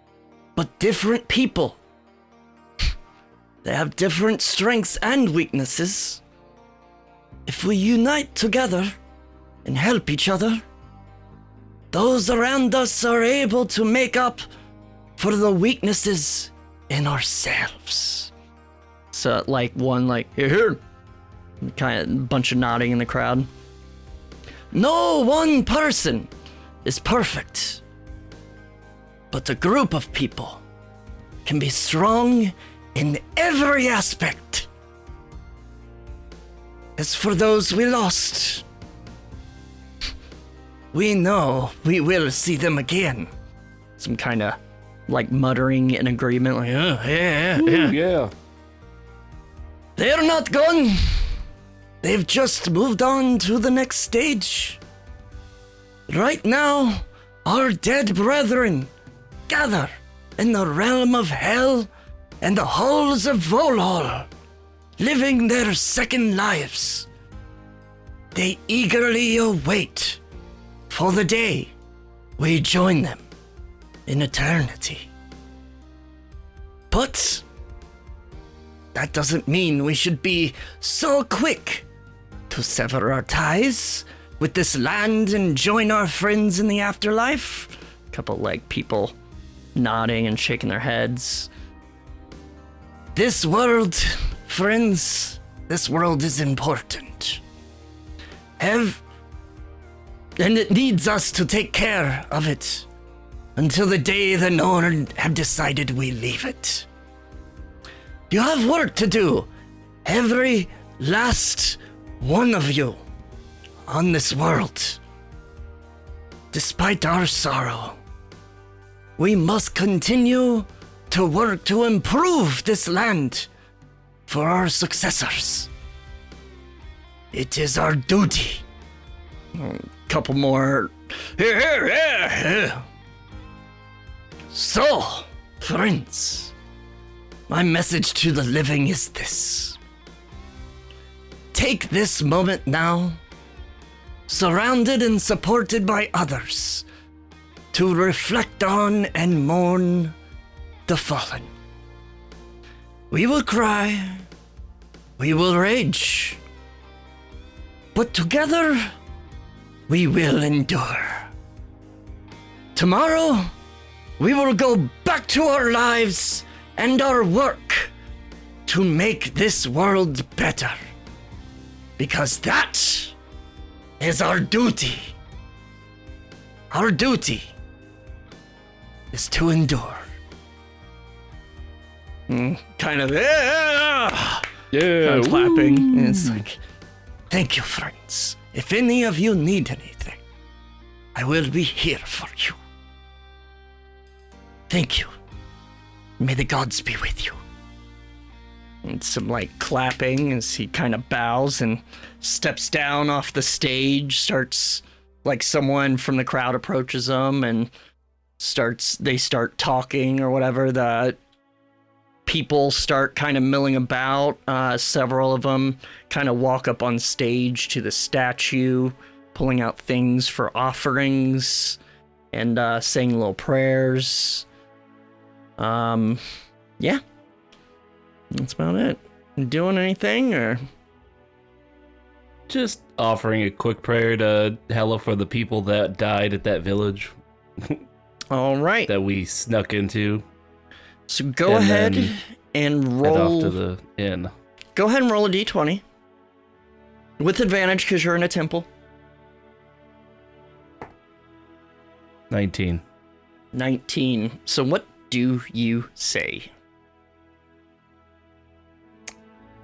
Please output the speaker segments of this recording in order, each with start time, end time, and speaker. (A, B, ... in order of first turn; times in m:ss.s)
0:00.6-0:01.8 A
0:03.6-0:06.2 A
0:07.5-0:09.0 A
0:09.6-0:10.6 A
0:11.9-0:14.5 A
0:15.2-0:18.3 A
0:19.1-0:20.8 A
0:21.6-0:23.5 A
0:24.7-0:26.3 A
0:26.8-0:27.8 A
0:29.3-0:30.6 A
0:31.4-0:34.7 A
0:37.0-0:38.6 A
0:40.9-0:43.3 A
0:44.0-0:48.0 A
0:47.6-0:48.3 B
0:50.0-0:51.3 A
0:52.0-0:54.8 A
0:56.1-0:58.9 A
0:59.5-1:01.9 A
1:02.4-1:04.3 A
1:05.0-1:07.1 A
1:08.3-1:10.2 A
1:10.9-1:11.7 A
1:12.4-1:13.2 A
1:14.1-1:15.1 A
1:16.9-1:17.4 A
1:19.0-1:21.8 A
1:22.5-1:29.1 A
1:29.8-1:31.5 A
1:33.2-1:37.4 A
1:38.6-1:39.0 A
1:40.4-1:42.9 A
1:43.6-1:46.9 A
1:48.3-1:49.5 A
1:50.0-1:53.0 A
1:53.9-1:55.0 A
1:56.5-1:58.0 A
1:59.2-2:03.5 A
2:04.3-2:05.7 A
2:07.3-2:08.6 A
2:09.5-2:12.8 A
2:14.5-2:16.5 A
2:17.5-2:19.8 A
2:21.5-2:23.2 A
2:24.3-2:26.9 A
2:27.7-2:30.2 A
2:30.9-2:31.5 A
2:33.1-2:34.3 A
2:35.2-2:36.4 A
2:38.0-2:38.9 A
2:39.9-2:41.3 A
2:42.8-2:43.5 A
2:44.2-2:47.9 A
2:48.7-2:50.8 A
2:52.0-2:53.2 A
2:54.0-2:55.2 A
2:56.7-2:57.5 A
2:59.1-3:00.0 A
3:02.3-3:04.5 A
3:04.7-3:06.4 B
3:05.0-3:06.6 A
3:07.3-3:10.2 A
3:11.2-3:12.6 A
3:14.7-3:15.1 A
3:16.2-3:17.4 A
3:18.8-3:27.7 A
3:28.4-3:31.2 A
3:32.3-3:41.8 A
3:42.3-3:44.5 A
3:45.6-3:46.2 A
3:48.3-3:50.6 A
3:52.5-3:57.8 B
3:58.3-3:58.9 A
3:58.9-4:00.2 B
4:01.1-4:03.6 A
4:01.5-4:02.1 B
4:03.0-4:04.3 B
4:04.8-4:05.8 A
4:07.2-4:08.7 A
4:12.3-4:12.8 B
4:13.5-4:16.5 A